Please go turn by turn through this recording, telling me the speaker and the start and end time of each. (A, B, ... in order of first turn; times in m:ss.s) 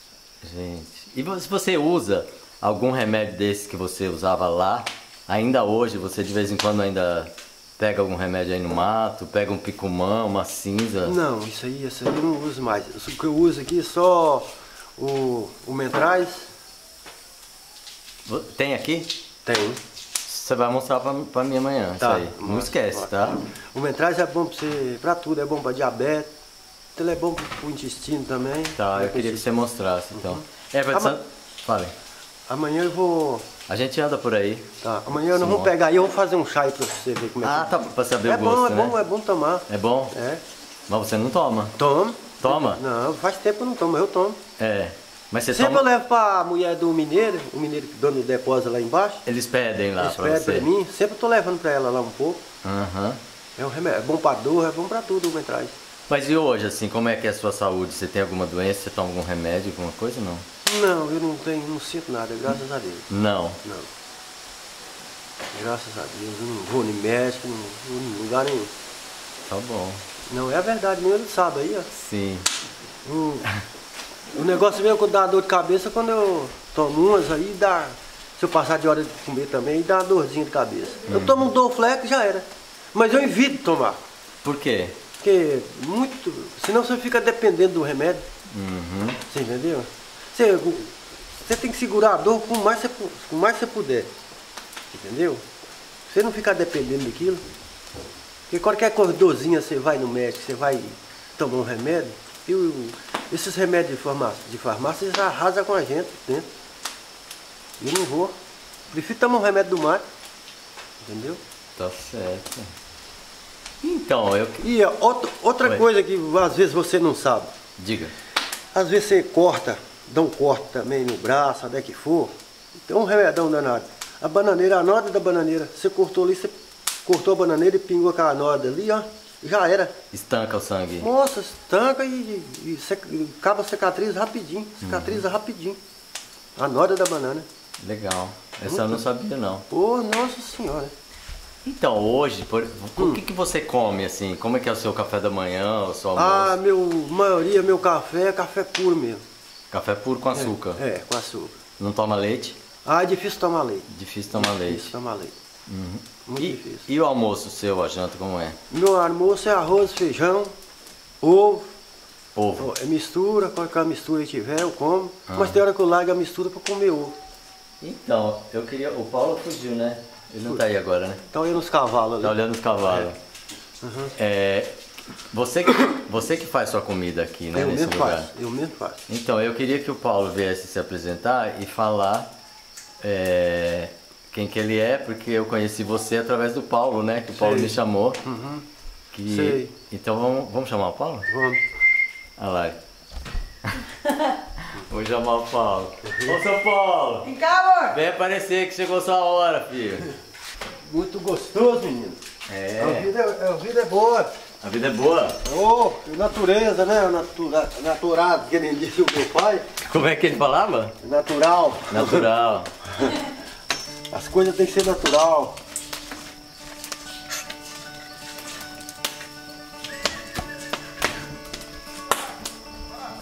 0:00.4-0:11.1 A
0:11.0-0:16.5 B
0:18.2-0:19.1 A
0:19.4-0:19.8 B
0:20.2-0:23.4 A
0:22.0-0:26.3 B
0:27.0-0:29.5 B
0:28.8-0:31.9 A
0:30.1-0:31.2 B
0:32.5-0:33.4 B
0:33.7-0:34.7 A
0:34.8-0:40.4 B
0:35.3-0:35.7 A
0:37.4-0:39.0 A
0:39.7-0:40.1 A
0:40.9-0:41.7 A
0:41.8-0:44.4 B
0:42.4-0:42.8 A
0:44.6-0:45.8 A
0:45.5-0:49.2 B
0:49.2-0:50.7 A
0:50.0-0:52.4 B
0:52.6-0:53.2 A
0:53.6-0:55.8 B
0:56.1-1:00.4 A
1:00.6-1:03.1 B
1:03.1-1:03.6 A
1:05.5-1:08.7 B
1:09.4-1:10.0 A
1:10.3-1:11.9 B
1:11.9-1:12.5 A
1:13.0-1:13.5 B
1:14.3-1:24.0 B
1:21.1-1:21.4 A
1:24.4-1:25.0 A
1:25.2-1:28.2 B
1:28.5-1:29.2 A
1:29.3-1:34.1 B
1:34.9-1:35.4 B
1:36.1-1:37.4 B
1:38.5-1:46.5 B
1:47.8-1:48.3 B
1:48.9-1:50.0 B
1:51.0-1:51.4 B
1:51.8-1:52.7 A
1:53.8-1:54.6 A
1:54.6-1:57.5 B
1:57.8-1:58.1 A
1:58.7-2:02.3 B
2:02.8-2:06.5 B
2:07.0-2:09.9 B
2:10.1-2:11.1 A
2:11.0-2:15.8 B
2:14.8-2:15.2 A
2:16.6-2:17.4 B
2:17.8-2:19.6 A
2:18.7-2:19.0 B
2:19.7-2:20.9 B
2:21.6-2:26.5 A
2:23.0-2:23.2 B
2:26.2-2:29.2 B
2:29.7-2:30.8 A
2:30.3-2:31.5 B
2:31.8-2:32.6 A
2:32.8-2:35.3 B
2:33.9-2:34.9 A
2:35.7-2:38.6 A
2:36.2-2:36.9 B
2:38.7-2:40.5 B
2:41.2-2:41.7 B
2:42.3-2:42.7 A
2:42.6-2:47.1 B
2:45.3-2:45.6 A
2:47.8-2:51.2 A
2:51.3-2:53.1 B
2:52.2-2:53.2 A
2:53.8-2:54.1 B
2:54.2-2:54.8 A
2:55.3-2:58.3 A
2:57.5-2:59.0 B
2:59.1-3:02.3 A
3:03.0-3:08.2 A
3:07.3-3:08.6 B
3:09.1-3:11.3 A
3:09.3-3:09.7 B
3:11.3-3:11.6 B
3:12.4-3:12.8 A
3:13.6-3:20.1 A
3:16.0-3:16.3 B
3:20.8-3:22.2 B
3:22.5-3:23.1 A
3:22.8-3:24.3 B
3:24.6-3:25.4 A
3:25.4-3:29.7 B
3:29.9-3:30.9 A
3:31.0-3:32.3 B
3:31.9-3:32.7 A
3:34.1-3:35.6 B